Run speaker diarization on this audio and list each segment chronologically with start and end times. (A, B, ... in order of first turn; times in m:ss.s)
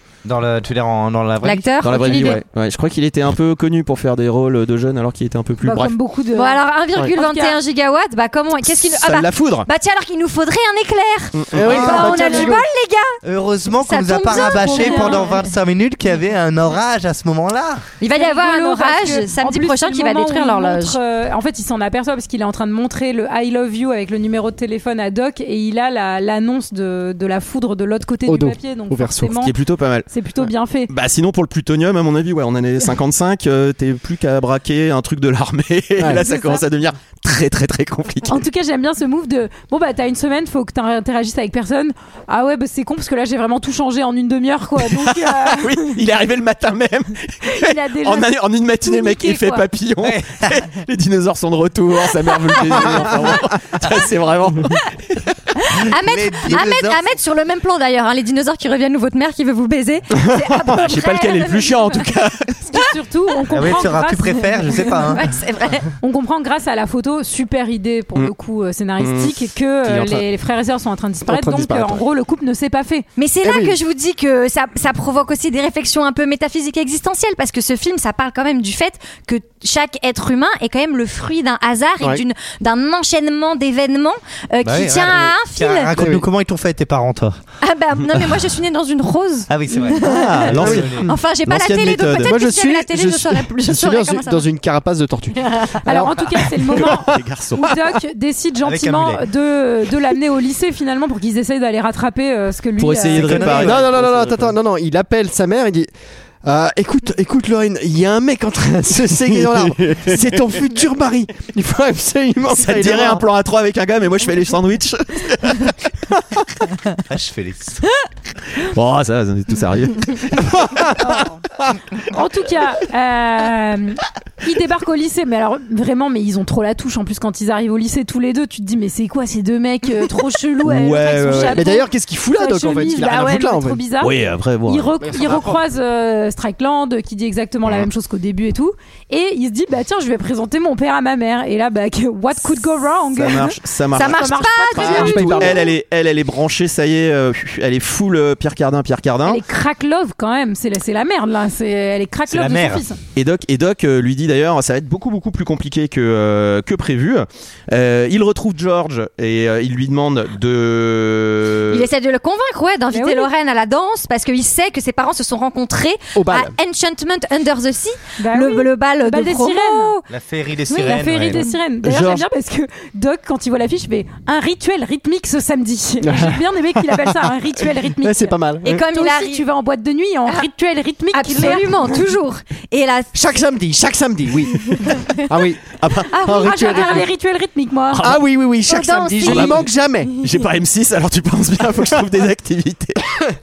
0:00.2-0:02.4 A
0:01.4-0:02.4 B
0:01.8-0:05.9 C
0:05.6-0:07.6 D
0:06.4-0:13.2 B
0:08.9-0:09.7 C
0:11.3-0:11.6 C
0:11.5-0:12.6 E
0:11.7-0:12.6 A
0:13.2-0:17.8 A
0:13.8-0:15.4 B
0:14.3-0:15.3 D
0:18.0-0:21.0 B
0:18.1-0:29.6 D
0:28.3-0:29.4 E
0:29.4-0:38.4 C
0:30.1-0:30.9 D
0:36.1-0:36.6 D
0:38.3-0:46.0 D
0:44.8-0:54.8 C
0:47.4-0:48.3 D
0:48.8-0:49.6 D
0:50.0-0:50.6 A
0:55.6-1:02.0 B
0:55.9-0:57.1 A
1:00.7-1:02.8 C
1:02.7-1:05.0 D
1:03.5-1:05.3 A
1:05.0-1:05.9 B
1:06.0-1:13.1 D
1:09.0-1:09.3 C
1:09.9-1:10.2 E
1:11.3-1:12.0 E
1:13.2-1:25.9 B
1:13.4-1:13.8 E
1:24.6-1:27.4 A
1:26.0-1:26.2 E
1:27.6-1:34.5 B
1:29.5-1:31.1 A
1:30.0-1:32.3 C
1:30.6-1:31.0 E
1:32.2-1:37.1 E
1:35.4-1:35.8 B
1:35.8-1:43.7 D
1:36.7-1:37.7 C
1:38.6-1:39.2 A
1:42.8-1:44.5 C
1:43.1-1:44.0 A
1:43.6-1:45.9 E
1:46.4-1:53.2 E
1:49.3-1:50.4 C
1:52.4-1:55.8 C
1:57.0-1:57.8 A
1:58.6-2:00.8 C
2:00.4-2:01.1 E
2:01.1-2:01.3 D
2:02.0-2:25.7 D
2:10.6-2:11.6 C
2:11.5-2:13.8 E
2:14.0-2:15.0 C
2:15.0-2:15.6 E
2:23.1-2:29.4 C
2:23.9-2:25.2 B
2:24.8-2:25.7 E
2:29.2-2:33.0 D
2:32.3-2:32.8 A
2:33.2-2:41.9 C
2:41.7-2:50.0 B
2:42.9-2:43.3 D
2:46.1-2:46.5 E
2:48.2-2:50.0 D
2:50.1-2:51.4 A
2:50.7-2:51.6 B
2:50.8-3:01.8 D
2:51.8-2:52.2 C
2:56.0-2:57.2 E
2:57.8-2:58.8 E
2:58.6-2:59.4 B
3:01.1-3:03.1 B
3:03.1-3:05.6 E
3:05.8-3:06.1 C
3:06.1-3:07.0 B
3:06.2-3:07.1 E
3:06.4-3:08.1 D
3:07.9-3:08.2 C
3:08.0-3:10.1 E
3:08.7-3:09.7 B
3:09.2-3:09.6 C
3:10.2-3:13.0 C